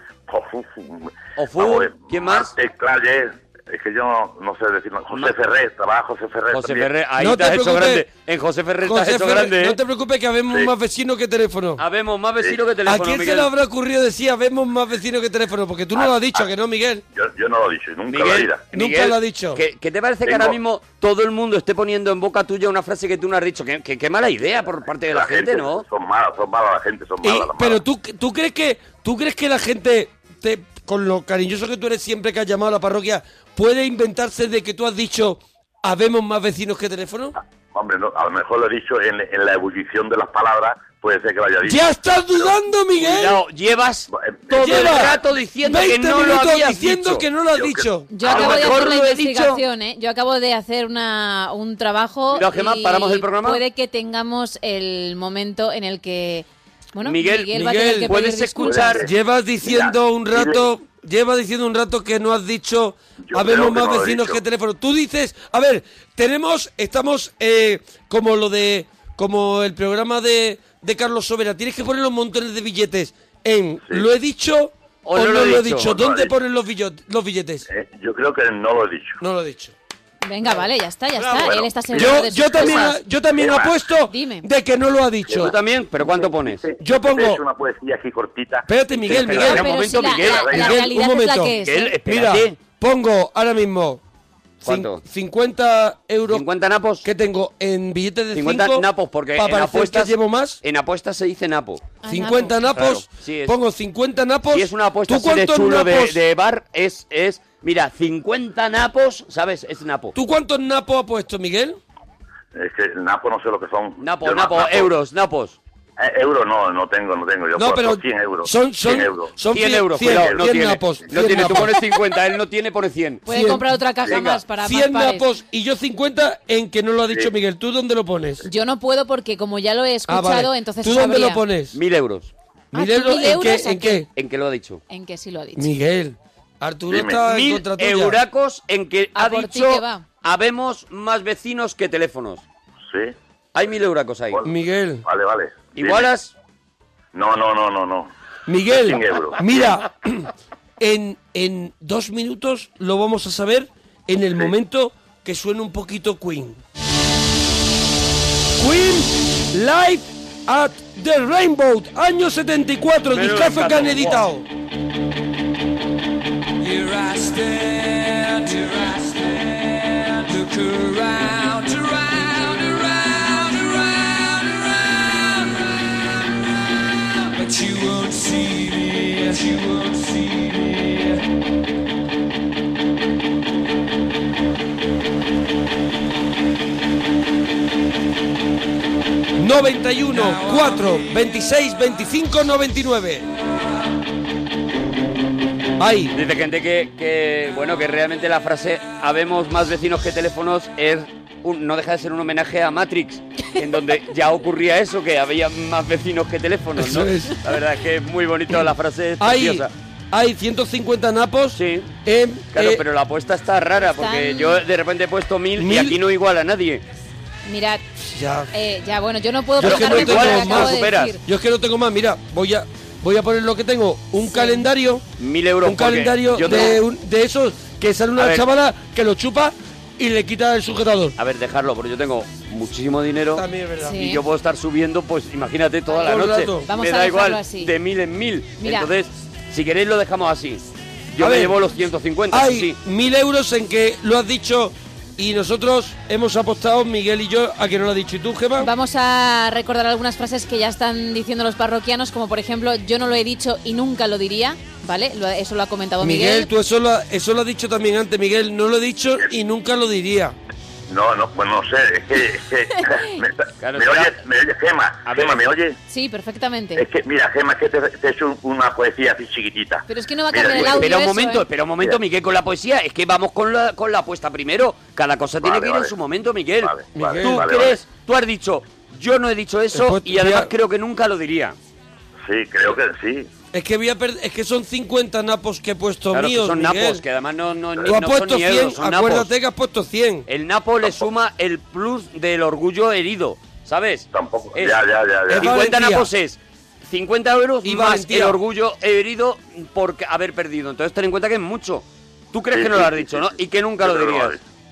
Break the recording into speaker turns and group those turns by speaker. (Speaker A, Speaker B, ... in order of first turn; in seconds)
Speaker A: 0.3-6.9, 15.9-16.5, 17.1-18.7, 20.2-20.6, 25.1-27.8, 37.4-42.5, 44.1-45.2, 47.5-48.9, 58.6-59.1, 59.6-60.7, 63.2-64.4, 75.5-76.3, 77.7-79.2, 81.4-83.8, 85.3-90.8, 112.5-114.9, 116.0-119.3, 120.0-120.6, 124.0-124.3, 136.9-137.2, 142.9-143.2, 145.0-146.1, 147.1-148.1, 148.7-149.8, 260.9-265.8, 266.8-270.9, 275.4-275.9, 276.6-277.8, 282.2-283.3, 290.8-291.1, 294.1-295.6, 302.5-304.4
Speaker B: 1.4-2.5, 5.1-5.4, 6.5-9.8, 11.8-13.5, 18.1-25.9, 43.0-47.2, 48.2-49.6, 52.3-53.6, 57.0-59.1, 75.0-76.0, 85.4-86.7, 89.1-90.8, 91.6-92.6, 94.6-95.0, 96.3-97.0, 98.3-101.9, 102.8-103.6, 104.5-110.1, 114.0-115.6, 119.5-123.2, 131.7-132.3, 134.2-134.8, 137.2-142.4, 143.5-144.4, 145.8-146.3, 163.1-164.2, 196.1-209.7, 211.6-211.9, 212.5-216.8, 219.6-221.2, 225.2-226.8, 228.2-228.5, 231.2-242.8, 263.6-264.2, 265.1-265.5, 270.5-281.6, 286.1-289.3, 290.3-294.8, 295.3-304.4
Speaker C: 7.2-8.1, 8.8-11.8, 12.9-17.0, 18.7-19.6, 27.2-37.4, 41.6-43.4, 44.5-48.1, 57.5-58.1, 59.0-77.7, 79.2-79.7, 81.2-85.5, 86.8-87.4, 88.7-94.0, 94.6-96.5, 97.0-100.6, 102.1-106.2, 110.2-111.8, 117.6-121.8, 123.3-128.5, 130.1-131.8, 132.7-134.1, 135.6-138.2, 144.4-145.0, 148.5-150.3, 150.8-156.6, 158.6-164.5, 189.4-193.2, 195.8-196.2, 206.8-207.4, 209.2-212.8, 215.6-216.0, 218.0-218.5, 219.6-225.1, 225.6-231.2, 233.4-234.1, 236.0-236.7, 241.2-241.6, 242.3-248.7, 256.0-260.4, 276.9-277.6, 279.7-280.5, 283.5-287.0, 287.9-290.3, 295.3-296.1, 297.6-298.4
Speaker D: 48.1-59.0, 80.2-83.0, 84.1-84.5, 89.4-92.0, 102.0-102.7, 123.3-125.2, 128.4-131.4, 132.7-134.1, 134.9-135.7, 139.2-140.0, 213.9-214.6, 217.4-217.8, 218.5-221.2, 224.3-224.6, 233.8-234.2, 235.9-237.7, 238.6-238.9, 248.6-256.5, 265.9-266.8, 269.9-271.5
Speaker E: 166.6-175.9, 177.3-181.2, 190.2-191.2